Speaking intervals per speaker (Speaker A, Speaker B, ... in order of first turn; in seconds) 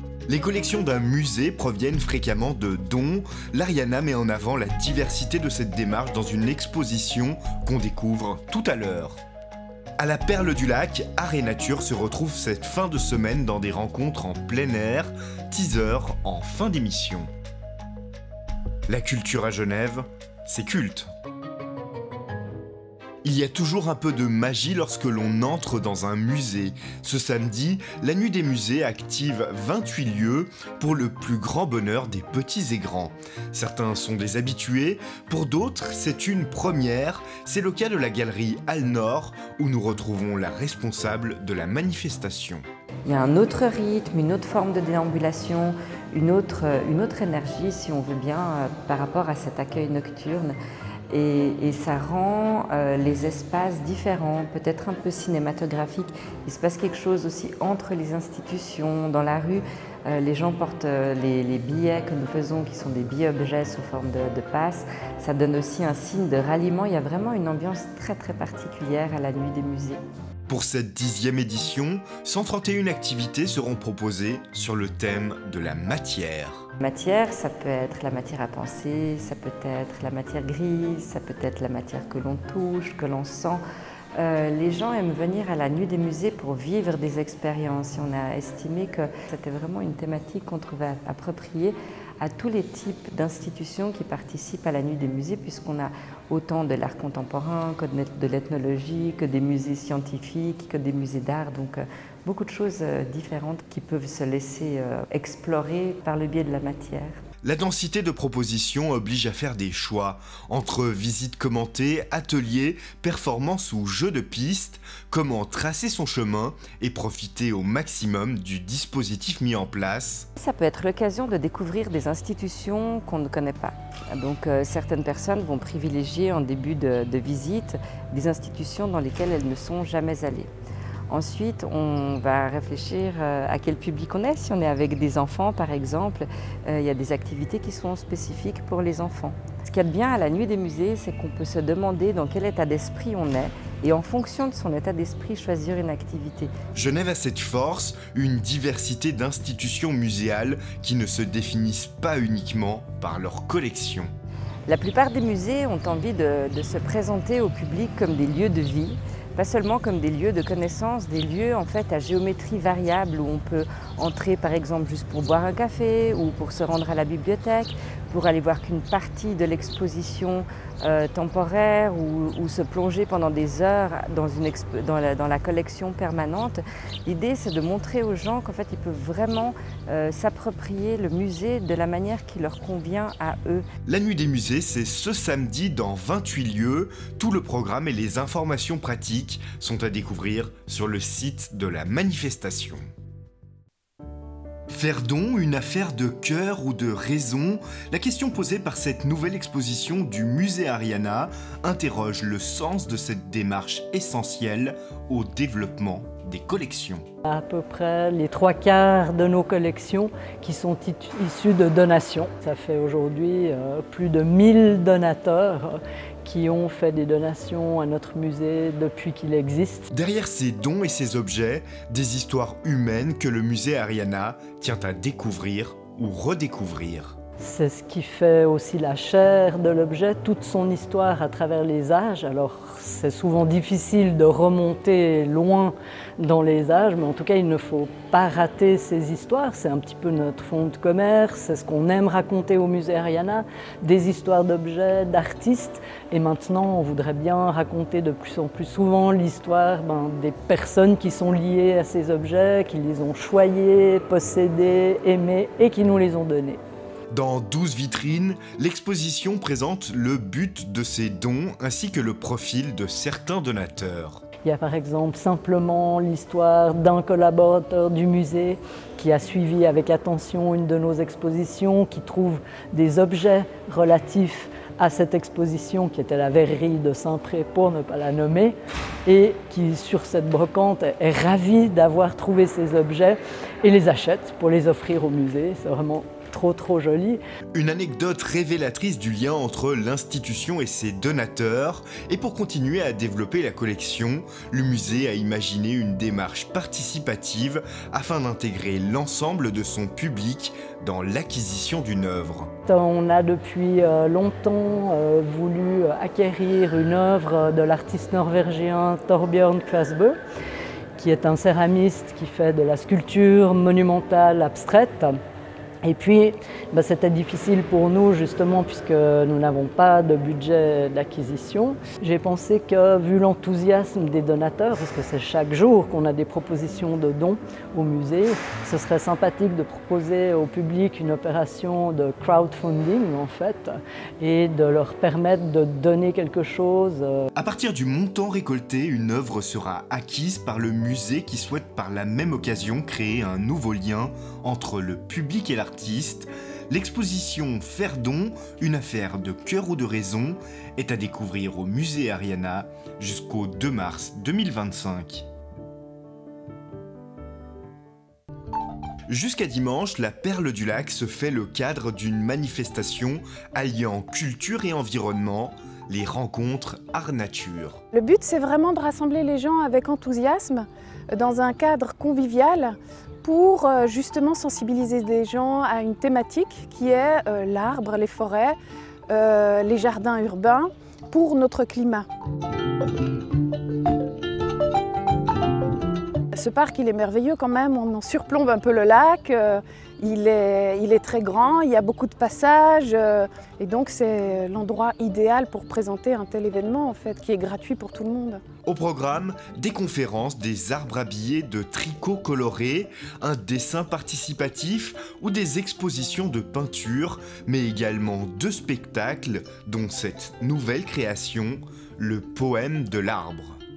Speaker A: 0.3-9.2, 10.0-17.3, 18.9-21.1, 23.2-42.6, 70.5-76.7, 107.4-120.3, 146.7-154.1, 183.9-192.8, 194.7-207.1, 219.9-227.2, 257.1-264.2, 287.5-302.5, 337.4-355.3, 359.1-367.8, 398.7-413.6
Speaker B: 43.0-50.6, 51.1-70.0, 76.8-83.6, 84.2-107.2, 120.4-130.5, 131.1-146.5, 154.7-183.7
Speaker C: 207.3-219.9, 227.4-256.6, 264.4-287.2, 302.7-310.2, 311.0-315.2, 315.8-337.3
Speaker D: 367.9-378.6, 379.1-382.1, 386.3-398.4